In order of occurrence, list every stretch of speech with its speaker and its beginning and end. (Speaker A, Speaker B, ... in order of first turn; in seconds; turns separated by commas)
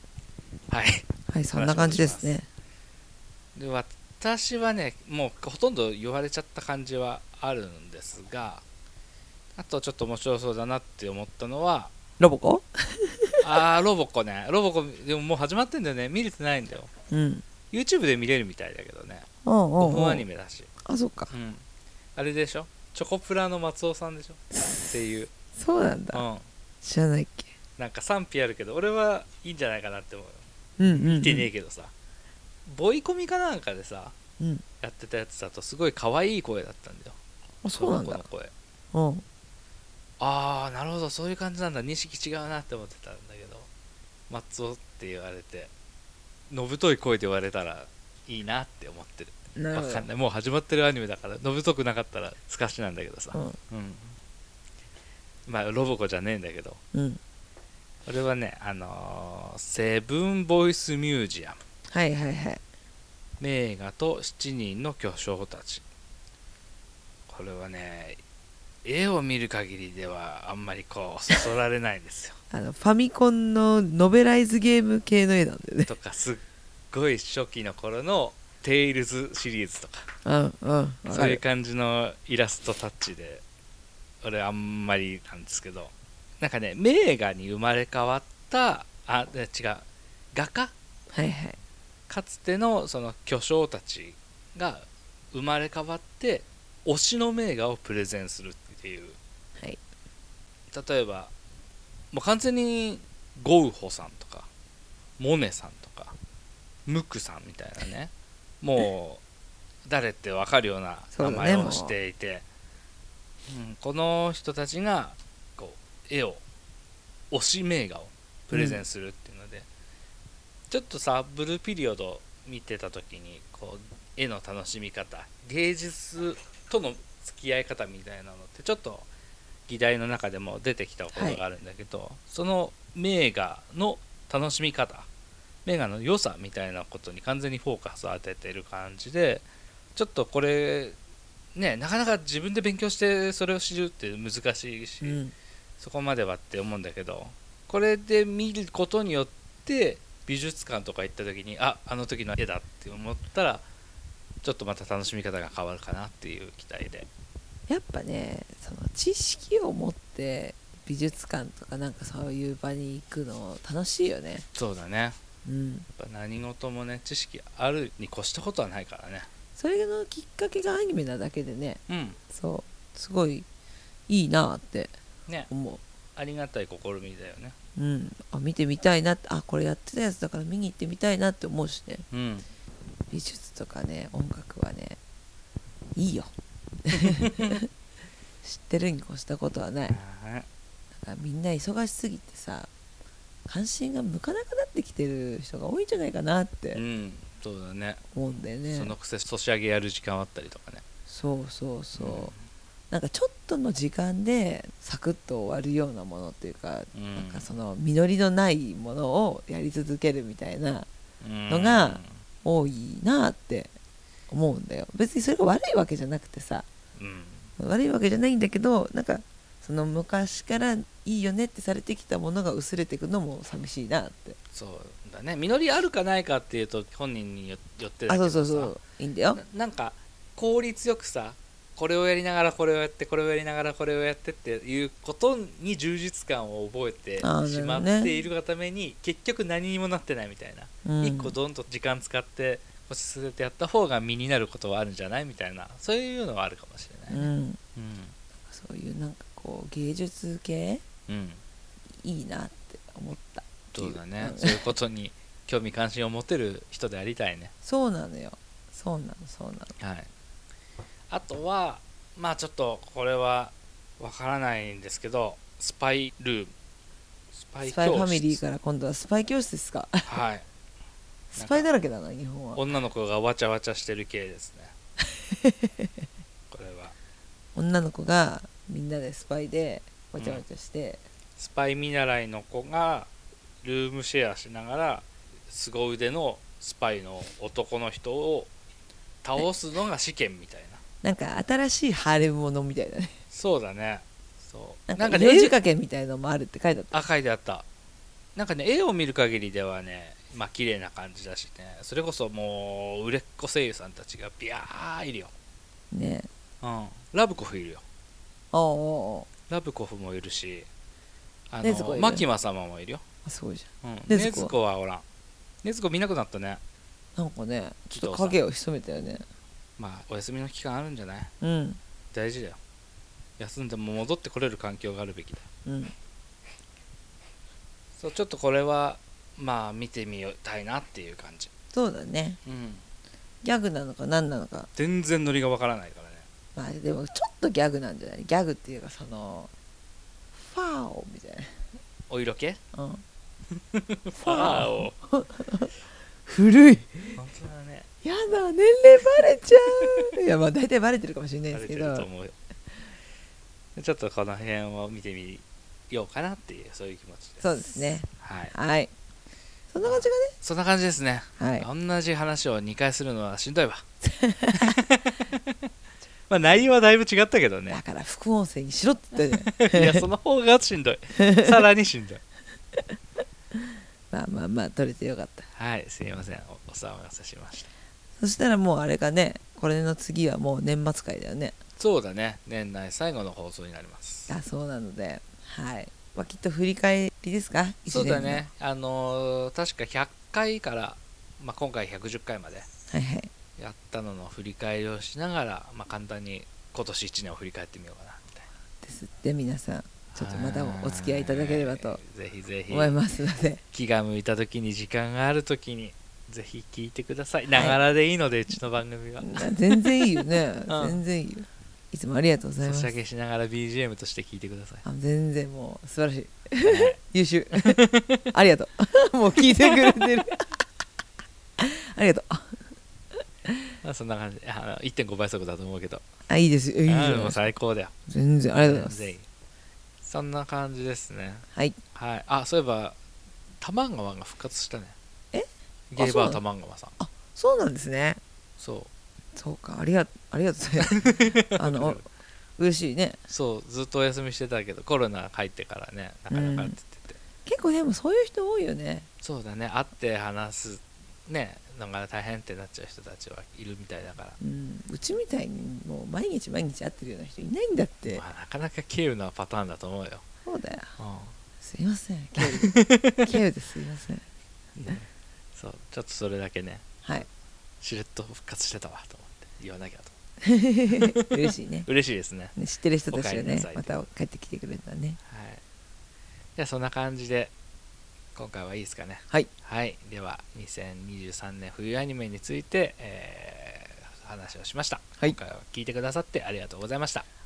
Speaker A: 0.7-2.3, Speaker B: 1.3-2.5, Speaker A: 3.5-8.6, Speaker A: 9.6-11.9, Speaker B: 12.2-13.5, Speaker A: 13.4-16.9, Speaker B: 17.1-17.4, Speaker A: 17.7-19.3, Speaker B: 19.4-20.2, Speaker A: 19.8-20.7, Speaker B: 20.8-21.3, Speaker A: 21.3-21.6, Speaker A: 22.1-25.3, Speaker B: 24.5-24.9, Speaker B: 25.6-26.2, Speaker A: 26.1-26.4, Speaker B: 26.8-27.5, Speaker A: 27.8-31.9, Speaker B: 30.8-31.5, Speaker A: 32.6-34.1, Speaker A: 34.8-37.2, Speaker B: 37.6-38.2, Speaker A: 37.7-38.5, Speaker B: 38.9-39.2, Speaker A: 40.2-43.7, Speaker A: 44.3-45.7, Speaker A: 46.5-54.2, Speaker B: 49.5-50.1, Speaker B: 53.3-53.6, Speaker A: 55.5-56.8, Speaker B: 56.9-57.2, Speaker A: 58.0-61.6, Speaker B: 61.9-62.6, Speaker A: 63.4-65.8, Speaker A: 67.3-68.2, Speaker A: 68.8-72.4, Speaker B: 72.5-75.9, Speaker A: 75.8-80.1, Speaker B: 80.2-81.4, Speaker A: 81.1-83.4, Speaker A: 84.2-90.7, Speaker B: 91.1-91.6, Speaker A: 92.1-99.2, Speaker A: 100.7-101.3, Speaker A: 102.1-104.5, Speaker A: 105.2-106.1, Speaker A: 106.9-109.2, Speaker A: 109.8-112.4, Speaker B: 111.1-111.9, Speaker A: 113.5-116.4, Speaker A: 117.3-119.7, Speaker B: 118.5-118.8, Speaker A: 120.7-129.1, Speaker A: 129.7-135.1, Speaker B: 131.1-131.4, Speaker A: 135.7-139.4, Speaker A: 139.9-141.0, Speaker A: 141.5-145.2, Speaker B: 145.0-145.3, Speaker A: 145.8-153.7, Speaker A: 154.4-157.1, Speaker B: 157.7-164.5, Speaker A: 164.5-165.2, Speaker B: 165.4-165.9, Speaker A: 166.0-169.3, Speaker B: 169.6-173.4, Speaker A: 171.9-172.2, Speaker B: 174.1-174.9, Speaker B: 175.5-175.8, Speaker A: 176.2-177.6, Speaker B: 177.8-182.0, Speaker A: 182.1-182.4, Speaker B: 183.1-185.0, Speaker B: 185.9-186.3, Speaker B: 186.8-187.6, Speaker A: 187.1-187.5, Speaker B: 188.4-190.0, Speaker A: 189.9-190.5, Speaker B: 190.9-192.7, Speaker B: 193.5-196.8, Speaker A: 196.7-198.0, Speaker B: 198.1-198.9, Speaker A: 198.6-200.8, Speaker B: 201.1-202.3, Speaker A: 202.0-202.4, Speaker B: 202.9-210.9, Speaker A: 206.9-207.5, Speaker A: 211.2-212.2, Speaker B: 211.5-213.7, Speaker B: 214.3-216.7, Speaker A: 216.9-217.5, Speaker B: 217.6-224.4, Speaker A: 224.5-228.8, Speaker B: 228.1-229.4, Speaker A: 229.3-248.2, Speaker B: 237.2-238.1, Speaker B: 240.8-241.3, Speaker B: 247.1-247.6, Speaker B: 248.4-250.8, Speaker A: 251.1-251.4, Speaker B: 252.0-254.7, Speaker A: 253.7-257.5, Speaker B: 257.6-259.7, Speaker A: 259.8-260.1, Speaker A: 261.1-266.5, Speaker A: 267.4-268.4, Speaker B: 267.6-270.1, Speaker A: 270.1-270.4, Speaker B: 271.3-272.6, Speaker A: 271.3-271.7, Speaker A: 272.5-274.7, Speaker B: 275.3-275.7, Speaker A: 276.5-276.9, Speaker B: 277.5-281.0, Speaker A: 280.2-280.4, Speaker A: 281.4-283.1, Speaker A: 283.6-288.5, Speaker A: 289.2-290.8, Speaker B: 291.0-293.2, Speaker A: 293.3-295.6, Speaker B: 294.9-297.0, Speaker A: 296.9-297.6, Speaker A: 298.3-305.3, Speaker B: 305.9-306.3, Speaker A: 306.6-307.8, Speaker B: 308.5-309.3, Speaker A: 309.5-310.7, Speaker A: 311.5-313.0, Speaker B: 311.6-312.2, Speaker B: 313.2-314.5, Speaker A: 313.8-315.0, Speaker A: 315.6-316.6, Speaker B: 317.1-319.2, Speaker A: 317.9-318.4, Speaker A: 319.8-321.3, Speaker B: 321.4-321.8, Speaker A: 322.1-322.6, Speaker A: 323.4-325.4, Speaker B: 325.6-325.9, Speaker A: 328.0-331.5, Speaker B: 331.7-332.4, Speaker A: 332.4-332.8, Speaker B: 333.4-334.7, Speaker A: 334.7-336.3, Speaker B: 336.6-339.5, Speaker B: 340.4-341.5, Speaker A: 342.1-342.6, Speaker B: 342.7-343.0, Speaker A: 343.7-344.9, Speaker B: 344.1-345.7, Speaker B: 346.2-347.2, Speaker A: 347.2-347.9, Speaker B: 348.0-352.1, Speaker A: 351.5-352.3, Speaker A: 353.8-358.5, Speaker B: 357.4-358.9, Speaker B: 359.7-360.3, Speaker A: 359.8-363.8, Speaker B: 361.4-361.7, Speaker B: 364.0-364.7, Speaker A: 364.6-365.6, Speaker A: 366.3-367.8, Speaker B: 367.7-370.1, Speaker A: 369.4-372.2, Speaker B: 371.2-371.6, Speaker B: 374.1-375.5, Speaker A: 375.5-377.7, Speaker B: 378.2-381.6, Speaker A: 381.8-384.3, Speaker B: 384.3-388.4, Speaker A: 387.9-392.7, Speaker B: 392.9-393.3, Speaker A: 393.6-398.5, Speaker B: 398.8-402.0, Speaker A: 400.1-403.0, Speaker B: 402.7-403.6, Speaker A: 403.7-409.9, Speaker B: 407.5-407.8, Speaker B: 409.2-412.9, Speaker A: 410.7-411.0, Speaker A: 412.6-414.8, Speaker B: 414.8-420.4, Speaker A: 416.6-417.0, Speaker A: 417.6-418.2, Speaker B: 421.6-422.7, Speaker A: 423.8-426.0, Speaker B: 426.3-427.4, Speaker A: 426.9-427.9, Speaker B: 428.1-429.1, Speaker A: 428.6-429.3, Speaker A: 430.0-433.0, Speaker A: 433.6-434.9, Speaker B: 435.3-436.4, Speaker A: 435.9-436.9, Speaker B: 437.0-438.2, Speaker A: 438.6-438.9, Speaker B: 439.4-442.0, Speaker A: 440.9-442.0, Speaker B: 442.6-443.2, Speaker A: 443.3-447.2, Speaker B: 446.3-446.8, Speaker B: 447.4-449.1, Speaker A: 449.2-454.4, Speaker B: 454.4-458.2, Speaker A: 458.1-460.2, Speaker B: 460.4-460.9, Speaker A: 461.0-461.3, Speaker B: 461.6-464.2, Speaker A: 462.4-463.2, Speaker A: 464.8-466.8, Speaker A: 467.8-470.1, Speaker B: 470.4-471.9, Speaker A: 470.9-471.2, Speaker A: 471.9-472.5, Speaker B: 472.5-475.2, Speaker A: 473.1-473.9, Speaker A: 475.3-475.6, Speaker A: 476.6-477.5, Speaker A: 478.3-487.2